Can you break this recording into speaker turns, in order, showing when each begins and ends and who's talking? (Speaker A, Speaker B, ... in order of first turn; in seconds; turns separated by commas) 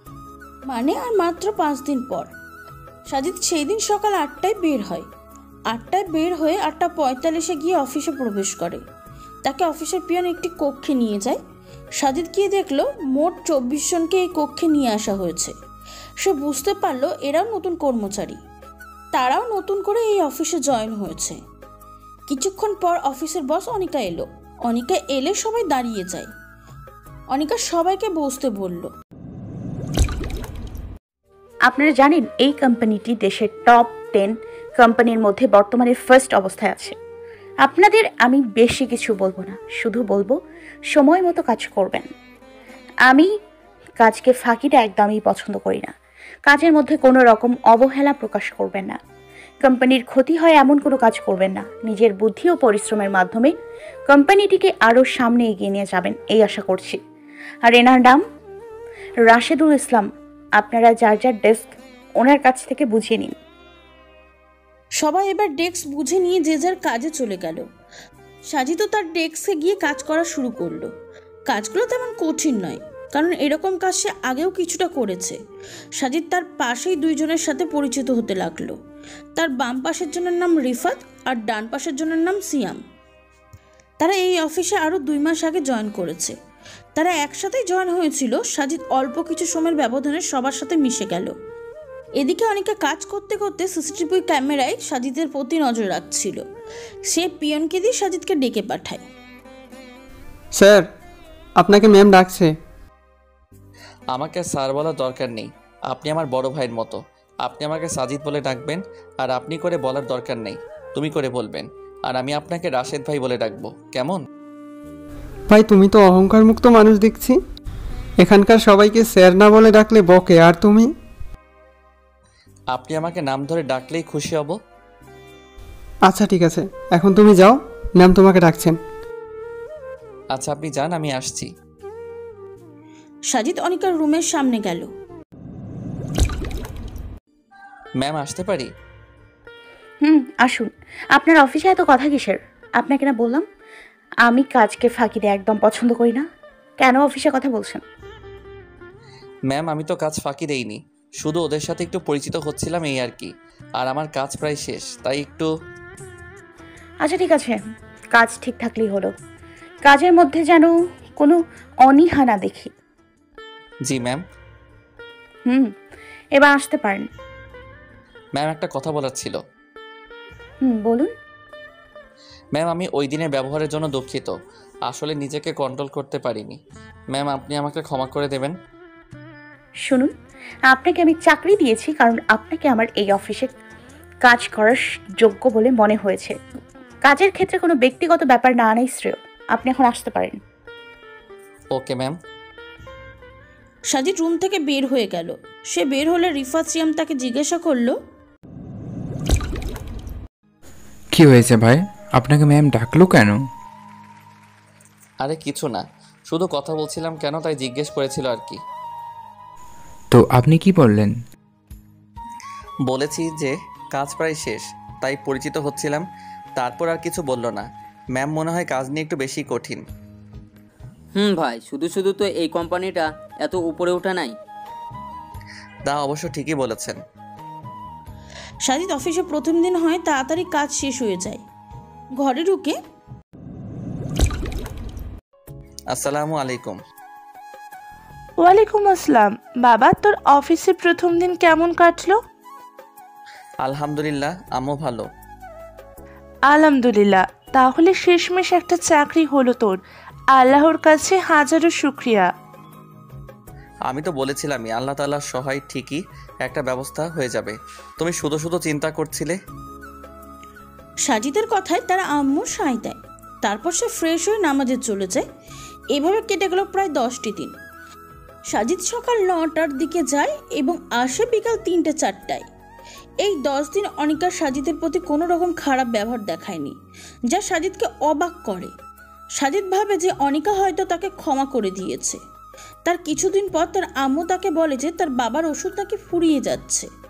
Speaker A: 0.7-2.3, Speaker A: 3.1-5.1, Speaker A: 5.7-8.8, Speaker A: 9.4-11.4, Speaker A: 12.0-15.5, Speaker A: 16.2-18.4, Speaker A: 19.1-21.4, Speaker A: 22.3-26.3, Speaker A: 27.3-28.9, Speaker B: 31.7-36.9, Speaker B: 37.6-40.4, Speaker B: 40.9-42.1, Speaker B: 44.0-45.9, Speaker B: 46.5-49.0, Speaker B: 49.6-53.5, Speaker B: 54.1-57.0, Speaker B: 57.7-58.2, Speaker B: 59.3-60.1, Speaker B: 60.6-63.3, Speaker A: 65.0-67.7, Speaker A: 68.5-70.9, Speaker A: 71.5-75.4, Speaker A: 76.0-78.8, Speaker A: 79.4-82.8, Speaker A: 84.0-86.3, Speaker A: 87.0-91.3, Speaker A: 92.2-96.4, Speaker A: 97.1-99.0, Speaker C: 100.5-100.9, Speaker C: 101.6-102.5, Speaker D: 104.1-114.2, Speaker C: 115.5-117.4, Speaker C: 118.2-120.9, Speaker D: 122.7-124.5, Speaker C: 126.1-128.8, Speaker D: 130.3-131.5, Speaker A: 133.3-134.9, Speaker D: 138.0-138.7, Speaker B: 140.1-143.4, Speaker B: 144.3-146.2, Speaker B: 146.8-147.8, Speaker D: 149.5-155.5, Speaker B: 157.1-157.6, Speaker B: 158.2-159.1, Speaker B: 159.9-162.7, Speaker D: 163.9-164.2, Speaker B: 166.4-167.0, Speaker D: 168.4-169.4, Speaker B: 170.6-171.1, Speaker D: 172.6-174.3, Speaker D: 174.9-176.6, Speaker D: 177.1-178.5, Speaker B: 180.7-183.5, Speaker B: 184.2-186.3, Speaker B: 187.1-190.4, Speaker D: 191.7-192.1, Speaker A: 193.9-198.0, Speaker E: 201.1-203.4, Speaker D: 205.2-208.6, Speaker E: 210.1-211.1, Speaker D: 212.9-216.0, Speaker D: 216.6-219.8, Speaker F: 221.1-224.3, Speaker D: 225.9-227.0, Speaker A: 228.6-231.4, Speaker A: 232.2-232.8, Speaker D: 235.9-236.8, Speaker G: 238.4-242.2, Speaker D: 243.6-245.1, Speaker G: 246.5-249.8, Speaker G: 250.3-252.3, Speaker D: 253.9-259.4, Speaker A: 261.1-265.2, Speaker A: 265.9-267.5, Speaker A: 268.5-272.5, Speaker A: 273.2-276.8, Speaker A: 277.3-278.7, Speaker A: 279.4-282.2, Speaker A: 282.9-286.9